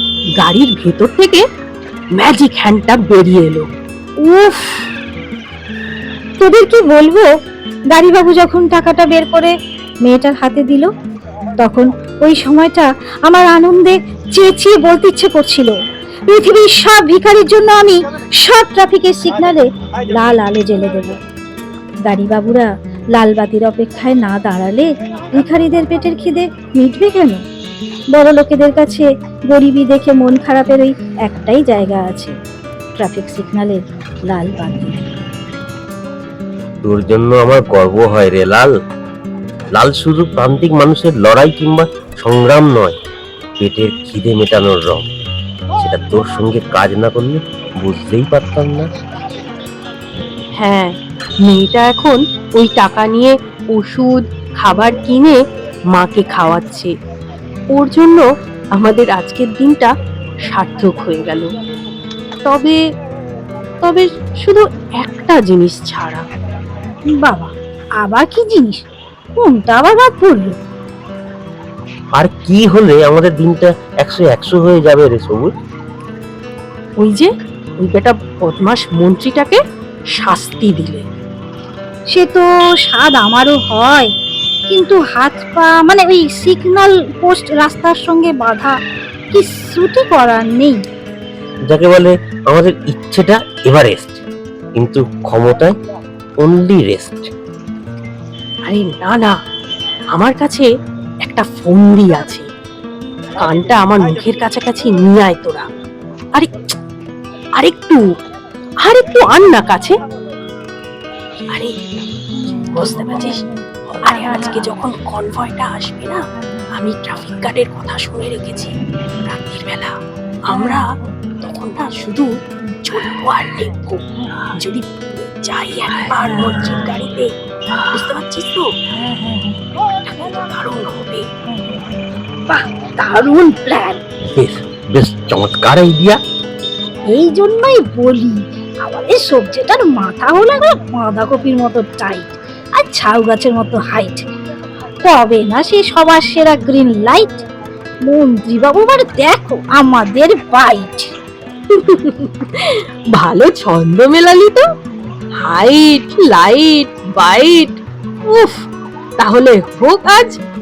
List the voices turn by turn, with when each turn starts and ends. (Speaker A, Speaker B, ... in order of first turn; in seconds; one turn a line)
Speaker A: 0.4-1.4
Speaker A: 2.2-3.6
Speaker B: 4.2-4.8
Speaker B: 6.4-7.3
Speaker B: 7.9-9.5
Speaker B: 10.1-10.9
Speaker B: 11.6-15.7
Speaker B: 16.3-21.2
Speaker B: 22.1-27.4
Speaker B: 28.1-32.3
Speaker B: 33.0-35.1
Speaker C: 36.8-38.7
Speaker C: 39.8-42.9
Speaker C: 43.6-45.1
Speaker C: 45.8-48.9
Speaker A: 50.6-55.4
Speaker A: 55.9-56.9
Speaker A: 57.7-58.2
Speaker A: 58.8-59.9
Speaker A: 60.5-61.5
Speaker A: 62.4-62.8
Speaker A: 63.8-66.2
Speaker B: 67.1-68.8
Speaker B: 69.4-70.5
Speaker C: 72.2-75.5
Speaker A: 77.0-77.3
Speaker A: 77.8-79.6
Speaker A: 80.2-81.0
Speaker B: 82.1-84.1
Speaker B: 84.7-88.7
Speaker B: 89.3-90.8
Speaker C: 91.7-94.2
Speaker C: 94.8-95.7
Speaker C: 96.4-97.3
Speaker A: 98.7-99.3
Speaker A: 100.2-100.7
Speaker A: 101.2-102.4
Speaker A: 103.4-105.7
Speaker A: 107.6-108.0
Speaker A: 108.8-110.0
Speaker A: 112.7-113.4
Speaker A: 114.0-120.8
Speaker A: 121.4-122.3
Speaker A: 122.8-127.3
Speaker A: 127.9-128.7
Speaker A: 130.1-131.3
Speaker B: 132.5-134.0
Speaker C: 134.3-136.2
Speaker B: 137.1-144.3
Speaker B: 145.0-147.4
Speaker B: 148.1-151.1
Speaker A: 151.7-154.6
Speaker A: 155.4-158.6
Speaker A: 159.2-160.4